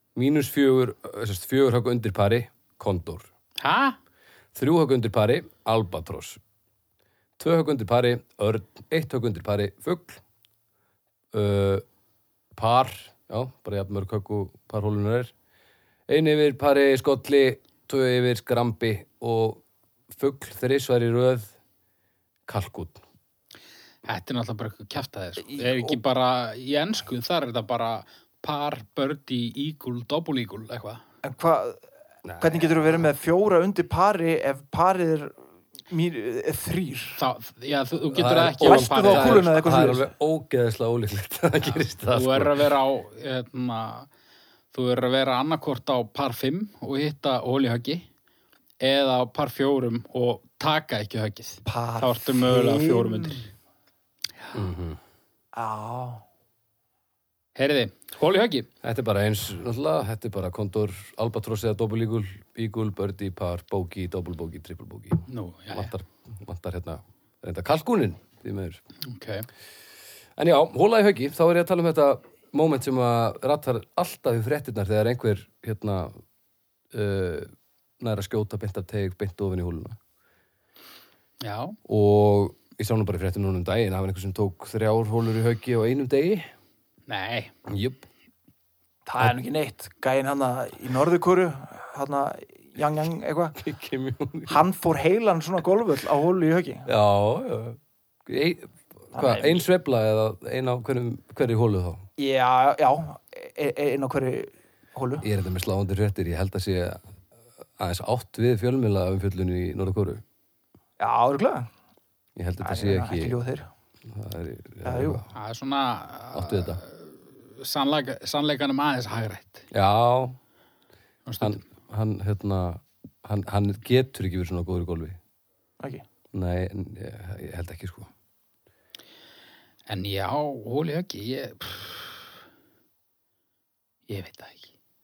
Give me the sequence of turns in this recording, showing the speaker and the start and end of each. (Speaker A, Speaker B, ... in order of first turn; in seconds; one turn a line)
Speaker A: 0.2-3.3
Speaker B: 3.6-4.0
Speaker A: 4.5-6.4
Speaker A: 7.4-10.2
Speaker A: 11.3-11.8
Speaker A: 12.6-15.3
Speaker A: 16.1-21.5
Speaker A: 22.5-23.0
Speaker B: 24.1-31.0
Speaker C: 25.5-25.8
Speaker C: 31.2-31.8
Speaker A: 32.2-33.1
Speaker C: 32.4-37.2
Speaker B: 37.2-39.5
Speaker A: 38.1-42.7
Speaker C: 38.6-40.1
Speaker B: 42.1-44.1
Speaker B: 44.7-48.1
Speaker B: 48.8-53.5
Speaker C: 51.6-53.5
Speaker A: 54.5-55.0
Speaker C: 55.5-56.2
Speaker B: 57.6-58.7
Speaker A: 58.8-68.8
Speaker B: 65.3-65.9
Speaker B: 69.0-69.5
Speaker A: 70.4-76.2
Speaker A: 76.9-80.0
Speaker B: 81.4-81.8
Speaker A: 81.9-86.5
Speaker B: 87.1-87.5
Speaker A: 87.7-88.0
Speaker C: 89.1-93.6
Speaker A: 93.6-94.6
Speaker C: 94.5-96.9
Speaker A: 96.9-102.0
Speaker C: 99.1-99.6
Speaker C: 102.2-105.3
Speaker A: 105.2-107.0
Speaker A: 107.8-110.2
Speaker C: 111.0-111.7
Speaker A: 112.4-113.4
Speaker C: 112.6-113.7
Speaker A: 114.1-115.3
Speaker C: 114.8-115.2
Speaker B: 115.3-119.7
Speaker A: 116.3-116.8
Speaker A: 119.7-120.4
Speaker B: 121.3-121.6
Speaker A: 121.4-125.2
Speaker A: 126.3-128.1
Speaker B: 129.9-132.3
Speaker B: 134.1-134.7